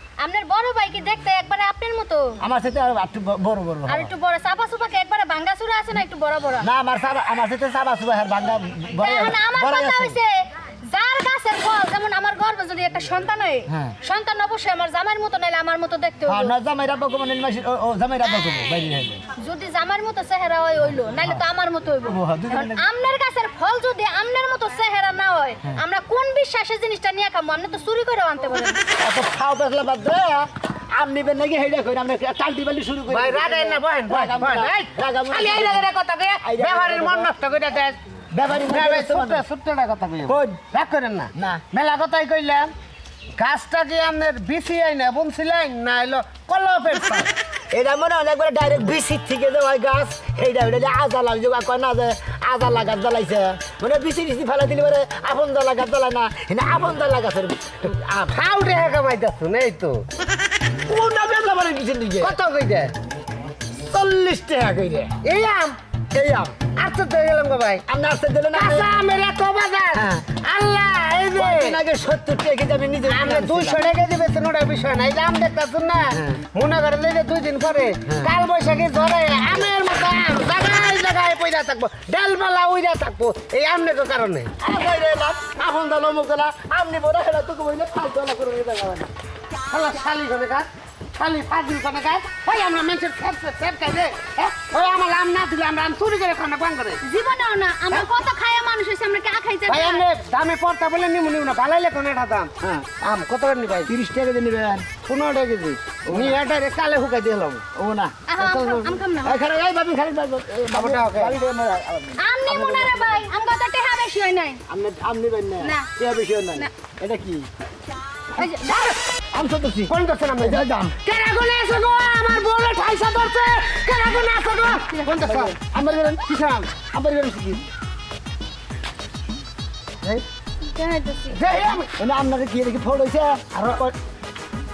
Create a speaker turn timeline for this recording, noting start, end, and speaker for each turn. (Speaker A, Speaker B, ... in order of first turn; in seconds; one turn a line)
Speaker A: 0.2-2.4
Speaker B: 2.4-4.1
Speaker A: 3.9-6.7
Speaker B: 6.6-10.2
Speaker A: 9.0-16.6
Speaker B: 13.7-13.9
Speaker B: 16.2-19.2
Speaker A: 19.4-28.8
Speaker B: 22.0-22.8
Speaker B: 29.0-35.9
Speaker C: 33.1-42.7
Speaker B: 36.4-37.3
Speaker B: 38.3-39.4
Speaker B: 40.2-40.6
Speaker B: 41.3-41.6
Speaker C: 43.4-47.3
Speaker B: 47.7-58.3
Speaker C: 58.3-60.0
Speaker B: 60.9-62.3
Speaker C: 62.2-62.9
Speaker B: 63.8-65.1
Speaker C: 65.2-65.8
Speaker B: 66.1-66.6
Speaker C: 66.8-67.8
Speaker B: 67.9-68.9
Speaker C: 68.5-71.8
Speaker B: 69.9-70.3
Speaker B: 71.3-73.8
Speaker C: 73.1-84.5
Speaker B: 76.1-76.4
Speaker B: 84.6-89.1
Speaker C: 89.7-97.0
Speaker A: 97.0-100.0
Speaker C: 99.7-103.9
Speaker B: 103.9-104.9
Speaker C: 105.0-107.6
Speaker B: 106.0-106.4
Speaker B: 107.8-108.1
Speaker A: 108.3-109.4
Speaker C: 108.3-109.0
Speaker B: 109.2-113.2
Speaker C: 110.7-111.3
Speaker A: 112.2-114.6
Speaker B: 114.7-117.5
Speaker A: 115.6-115.9
Speaker A: 118.4-119.0
Speaker B: 119.3-121.0
Speaker C: 119.9-126.7
Speaker A: 124.6-125.2
Speaker B: 125.2-126.2
Speaker B: 126.8-127.7
Speaker A: 130.7-131.4
Speaker C: 131.3-131.9
Speaker B: 132.0-133.9